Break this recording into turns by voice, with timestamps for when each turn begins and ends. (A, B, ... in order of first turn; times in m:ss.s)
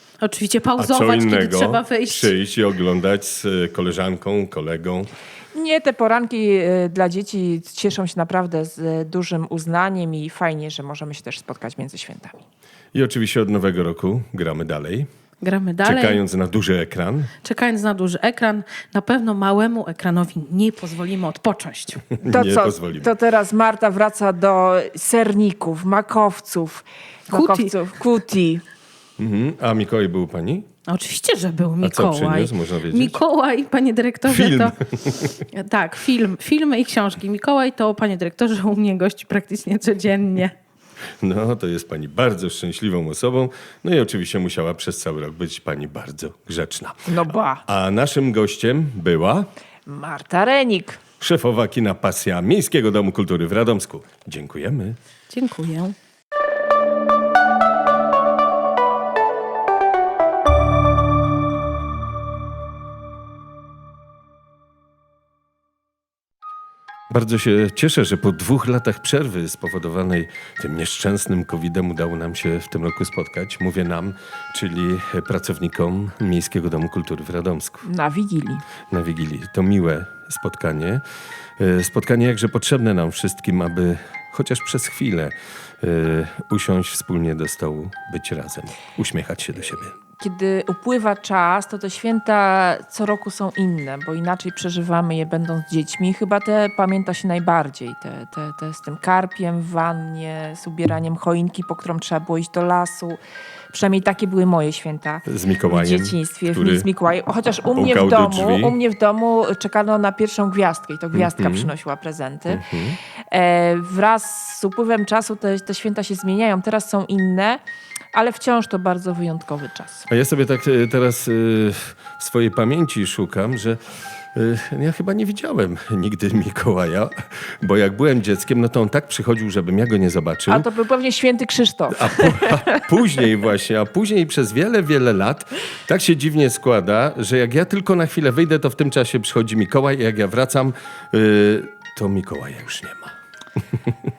0:00.2-0:02.3 A
0:00.8-0:05.1 B
0:05.5-0:12.4 C
0:12.9-0:15.1 B
0:15.4-0:16.2 A
0:15.8-0:17.3 B
0:17.4-0:22.0 A
0:22.2-0:23.1 B
0:22.2-0:28.6 C
0:27.3-0:27.7 A
0:29.2-0:30.6 B
0:30.9-0:34.7 A
0:31.8-0:33.2 B
0:34.2-0:35.3 B
0:35.6-0:40.5 A
0:41.2-0:47.1 B
0:47.1-0:47.6 C
0:47.6-0:49.5 B
0:49.8-0:51.0 C
0:51.2-0:55.0 B
0:55.3-0:55.9 A
1:07.1-1:17.8 B
1:17.8-1:18.6 C
1:18.9-1:21.0 B
1:21.6-1:30.0 B
1:30.2-1:52.6 C
1:45.3-1:46.9 B
1:47.7-1:48.8 B
1:51.1-1:51.7 B
1:52.5-1:53.0 B
1:53.3-1:57.6 C
1:58.1-2:00.0 C
2:00.1-2:03.8 B
2:04.3-2:10.6 B
2:10.5-2:12.8 C
2:11.9-2:23.1 B